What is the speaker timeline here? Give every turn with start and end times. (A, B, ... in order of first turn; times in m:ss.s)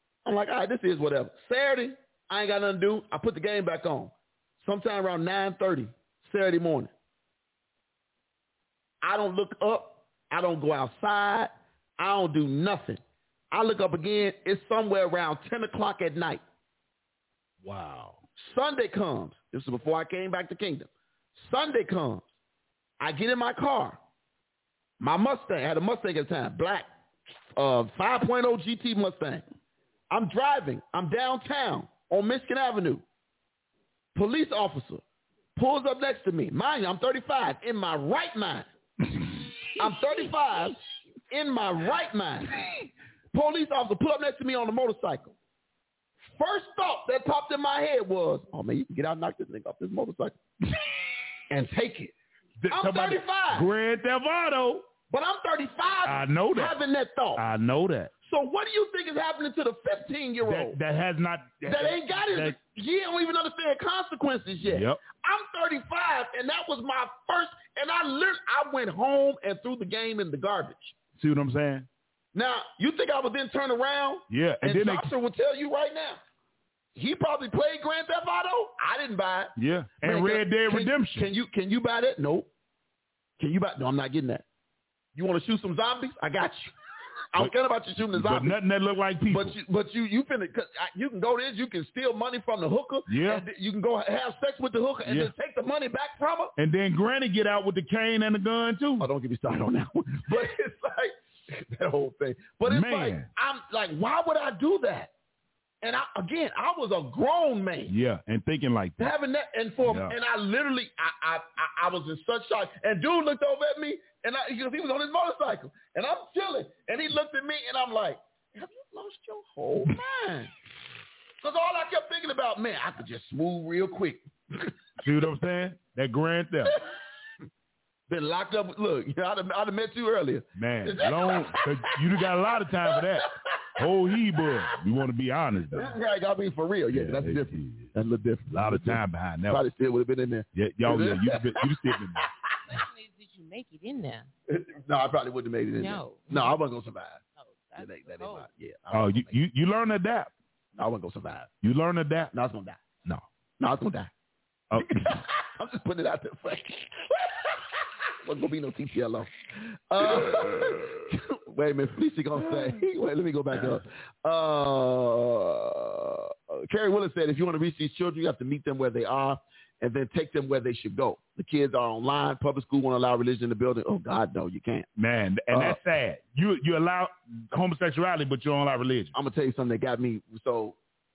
0:00.2-0:06.9 A
0:09.0-0:13.0 A
0:13.5-0:16.4 A
0:17.6-0:18.2 B
0:18.4-0:22.2 A
0:23.0-0:24.0 A
0:25.0-0:26.9 A
0:27.6-0:29.4 A
0:30.1-0:33.0 A
0:34.2-0:35.0 A
0:35.6-0:38.7 A
0:39.8-0:40.8 A
0:41.3-0:42.6 A
0:43.3-0:45.4 A
0:46.4-0:50.4 A
0:51.5-0:52.1 A
0:52.6-0:54.9 B
0:52.7-0:53.7 A
0:55.1-0:57.4 A
0:56.0-0:56.7 B
0:57.4-0:58.1 B
0:58.2-1:00.8 A
1:00.4-1:02.6 B
1:01.6-1:11.0 A
1:04.7-1:05.0 B
1:11.2-1:11.9 B
1:12.3-1:16.2 A
1:14.3-1:15.1 B
1:17.0-1:22.5 A
1:19.6-1:21.3 B
1:23.4-1:24.4 A
1:25.2-1:26.7 A
1:27.3-1:28.6 A
1:28.1-1:29.6 B
1:29.3-1:36.5 A
1:33.1-1:33.4 B
1:35.0-1:35.3 B
1:36.6-1:39.1 B
1:39.0-1:45.1 A
1:42.7-1:43.3 B
1:45.8-1:48.0 A
1:47.9-1:49.1 B
1:49.0-2:00.5 A
1:49.8-1:50.1 B
2:01.4-2:04.7 A
2:05.0-2:06.8 B
2:08.1-2:14.6 A
2:10.6-2:15.9 B
2:15.7-2:22.8 A
2:16.9-2:17.9 B
2:18.5-2:19.6 B
2:20.6-2:22.3 B
2:22.7-2:24.3 C
2:24.5-2:27.2 A
2:25.8-2:26.6 C
2:27.4-2:28.5 C
2:27.8-2:29.4 A
2:28.9-2:30.3 B
2:30.7-2:31.5 A
2:31.6-2:32.3 B
2:32.3-2:32.8 A
2:33.6-2:34.1 A
2:34.7-2:35.1 B
2:34.7-2:54.9 A
2:55.0-2:59.1 B
2:55.5-2:55.8 A
2:59.1-3:00.8 A